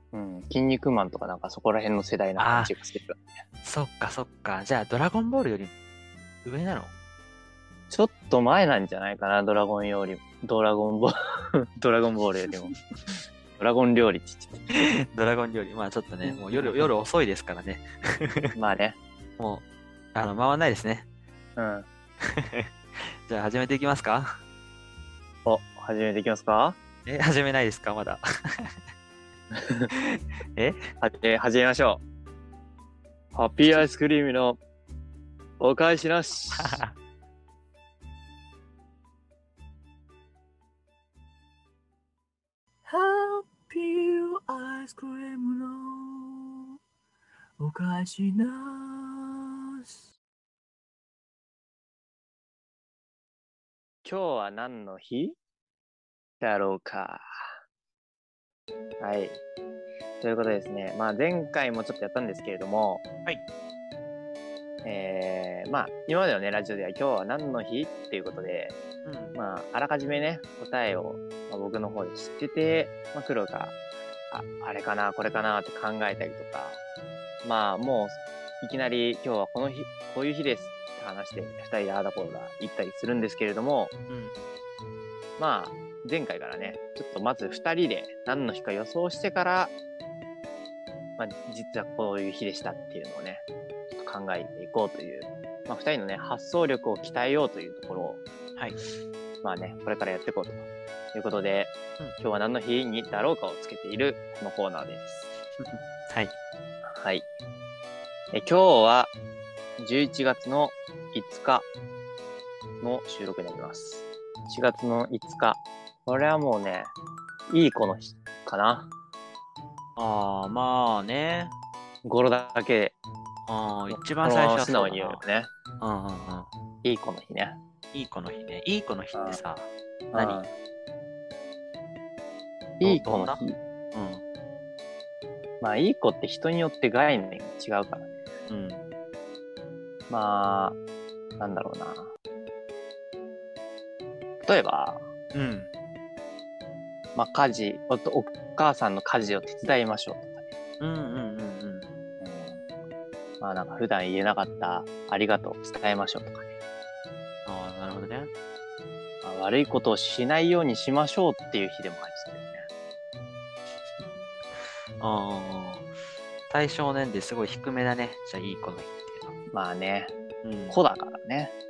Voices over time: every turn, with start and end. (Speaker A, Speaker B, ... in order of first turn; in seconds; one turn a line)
Speaker A: 0.1-3.2
Speaker B: 2.4-2.7
Speaker B: 3.6-5.7
Speaker B: 6.4-6.9
Speaker A: 7.9-12.7
Speaker A: 13.6-14.6
Speaker B: 14.7-18.5
Speaker A: 16.2-16.9
Speaker A: 18.5-19.0
Speaker B: 19.4-21.1
Speaker A: 21.6-21.9
Speaker B: 22.3-22.7
Speaker B: 23.2-24.3
Speaker A: 25.4-26.8
Speaker B: 27.1-28.6
Speaker A: 29.5-29.9
Speaker B: 29.9-30.8
Speaker A: 31.0-32.0
Speaker A: 33.3-34.6
Speaker A: 35.6-36.8
Speaker B: 36.5-36.9
Speaker C: 42.9-46.6
Speaker C: 47.6-49.8
Speaker A: 54.0-55.4
Speaker A: 56.4-57.2
Speaker A: 59.0-59.4
Speaker A: 60.2-63.0
Speaker A: 64.8-68.8
Speaker B: 69.0-69.3
Speaker A: 69.3-73.8
Speaker A: 74.3-76.8
Speaker A: 77.4-83.9
Speaker B: 84.1-84.4
Speaker A: 85.4-89.7
Speaker A: 91.2-98.2
Speaker A: 99.4-105.3
Speaker B: 105.6-106.3
Speaker A: 106.9-107.3
Speaker A: 108.3-109.1
Speaker A: 109.8-111.7
Speaker A: 112.8-116.9
Speaker A: 117.5-118.9
Speaker B: 120.0-121.5
Speaker A: 122.0-123.0
Speaker B: 123.5-125.2
Speaker A: 123.9-125.5
Speaker B: 125.8-126.5
Speaker A: 126.8-127.6
Speaker B: 127.9-130.4
Speaker A: 129.1-129.4
Speaker A: 130.1-130.5
Speaker A: 132.8-133.6
Speaker B: 132.8-133.4
Speaker B: 133.9-134.2
Speaker A: 135.6-138.1
Speaker B: 138.5-138.8
Speaker A: 140.1-140.8
Speaker A: 141.4-142.1
Speaker A: 144.4-145.0
Speaker B: 145.3-145.7
Speaker A: 147.1-150.4
Speaker B: 150.8-151.9
Speaker A: 152.2-152.6
Speaker A: 153.4-156.5
Speaker B: 157.4-158.3
Speaker A: 159.2-162.6
Speaker B: 165.0-165.9
Speaker B: 166.5-169.3
Speaker A: 169.5-170.1
Speaker B: 170.4-170.8
Speaker A: 170.7-171.5